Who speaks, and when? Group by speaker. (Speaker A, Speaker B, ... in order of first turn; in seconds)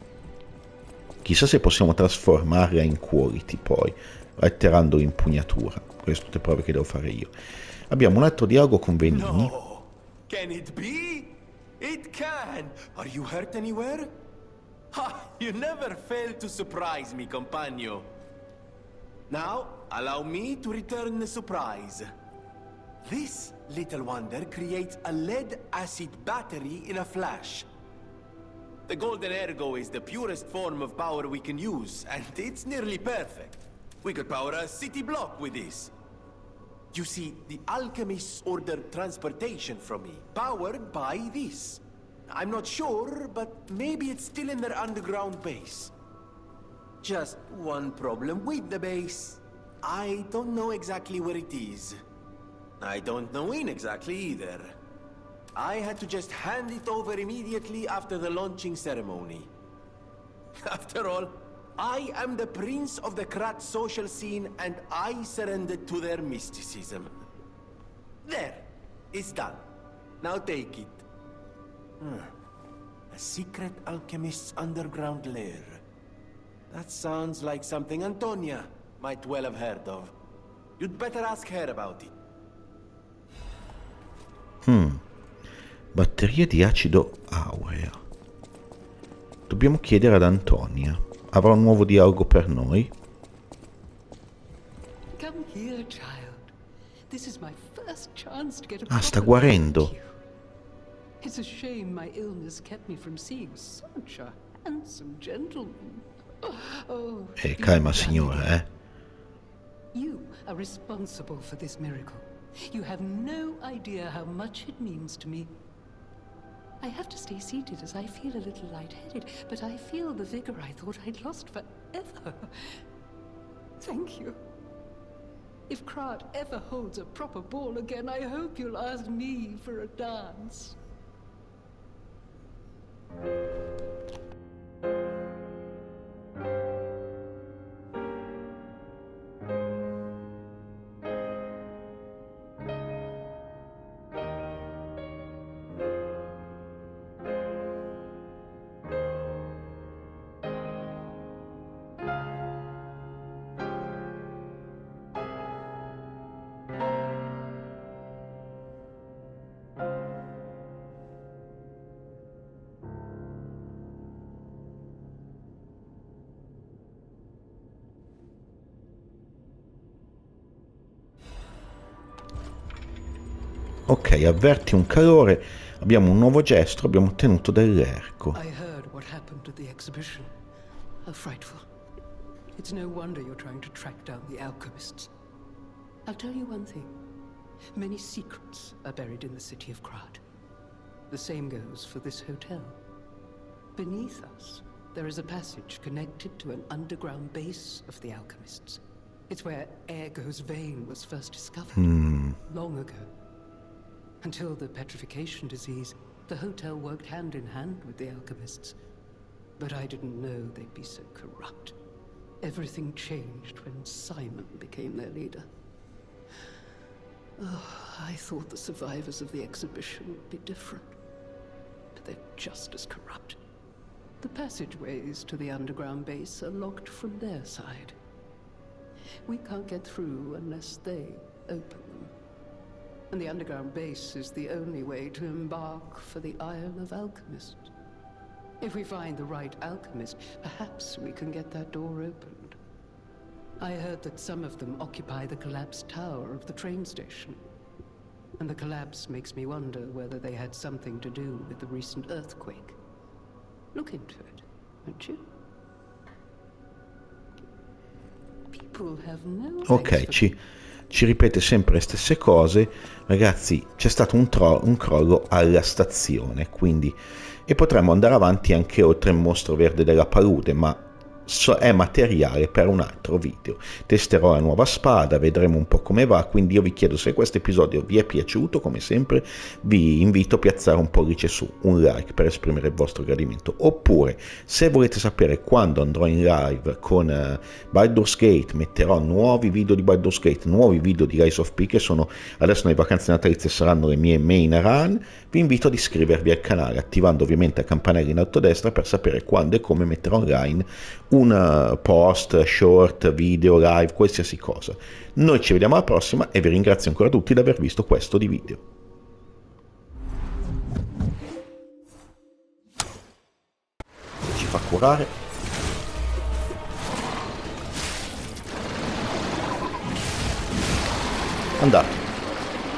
Speaker A: 1.2-7.3, 7.9-9.5, 84.6-85.0, 85.9-88.0, 89.5-92.9, 98.9-99.9, 107.4-108.7, 173.9-178.4, 201.8-202.4, 259.6-260.4, 260.9-308.6, 314.3-315.1, 321.6-322.0
Speaker B: 9.1-14.2, 14.9-18.1, 19.3-22.1, 23.0-27.7, 28.9-35.9, 36.9-45.9, 47.0-52.0, 52.8-54.7, 55.5-59.5, 60.6-67.1, 68.2-69.7, 70.2-71.1, 72.0-72.3, 73.1-75.8, 76.7-80.1, 80.8-82.2
Speaker C: 95.2-96.5, 97.1-100.2, 101.2-108.6, 109.9-115.6, 116.8-122.8, 123.8-124.4, 125.7-130.8, 178.3-180.3, 181.0-181.7, 182.5-185.1, 186.1-187.0, 187.7-190.2, 191.1-192.8, 193.7-203.1, 204.2-208.8, 209.6-211.8, 212.4-215.5, 217.4-221.0, 221.9-223.4, 224.2-227.9, 229.2-232.1, 233.1-237.7, 238.6-242.6, 243.6-247.4, 248.4-252.8, 253.7-255.3, 258.5-260.4